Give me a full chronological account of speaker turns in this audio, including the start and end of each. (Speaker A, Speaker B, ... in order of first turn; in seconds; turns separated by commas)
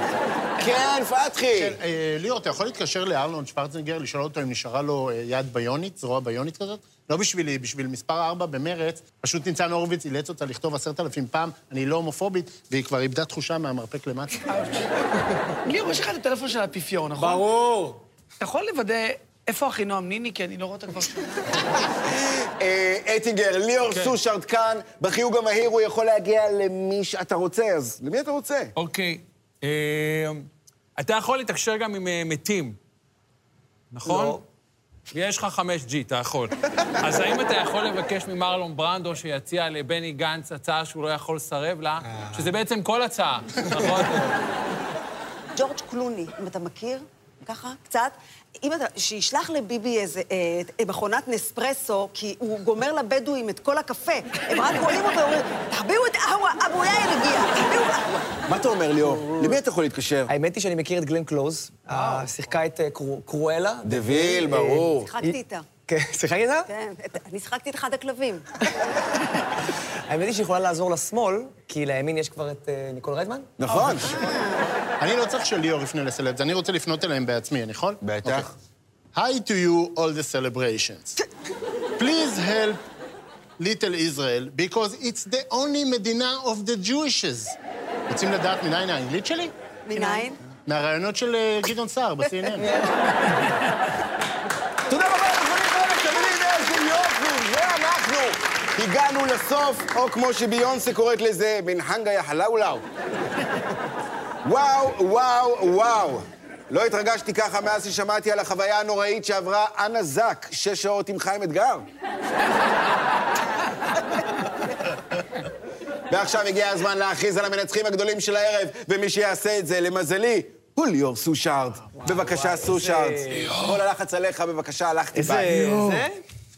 Speaker A: 0.6-1.8, Speaker B: 1.5-14.6, Speaker C: 14.5-14.8, Speaker C: 15.6-17.5, Speaker A: 17.2-18.0, Speaker C: 18.4-21.5, Speaker A: 21.8-28.7, Speaker D: 23.9-24.2, Speaker D: 28.8-32.8, Speaker D: 33.9-34.4, Speaker E: 34.0-34.4, Speaker D: 35.1-44.4, Speaker F: 45.5-58.3, Speaker A: 58.5-60.3, Speaker E: 60.3-65.3, Speaker A: 63.8-65.1, Speaker F: 65.0-65.7, Speaker E: 65.9-66.7, Speaker F: 66.7-68.5, Speaker E: 70.1-73.9, Speaker A: 73.6-74.1, Speaker F: 74.0-74.7, Speaker B: 75.0-78.5, Speaker A: 78.0-78.5, Speaker B: 79.1-81.2, Speaker B: 82.0-82.8, Speaker B: 83.6-87.5, Speaker B: 88.1-89.5, Speaker F: 89.8-90.4, Speaker B: 90.7-92.7, Speaker E: 92.6-92.9, Speaker A: 94.9-102.8, Speaker A: 104.4-111.8, Speaker A: 116.1-125.8, Speaker E: 122.0-123.6, Speaker E: 125.1-126.2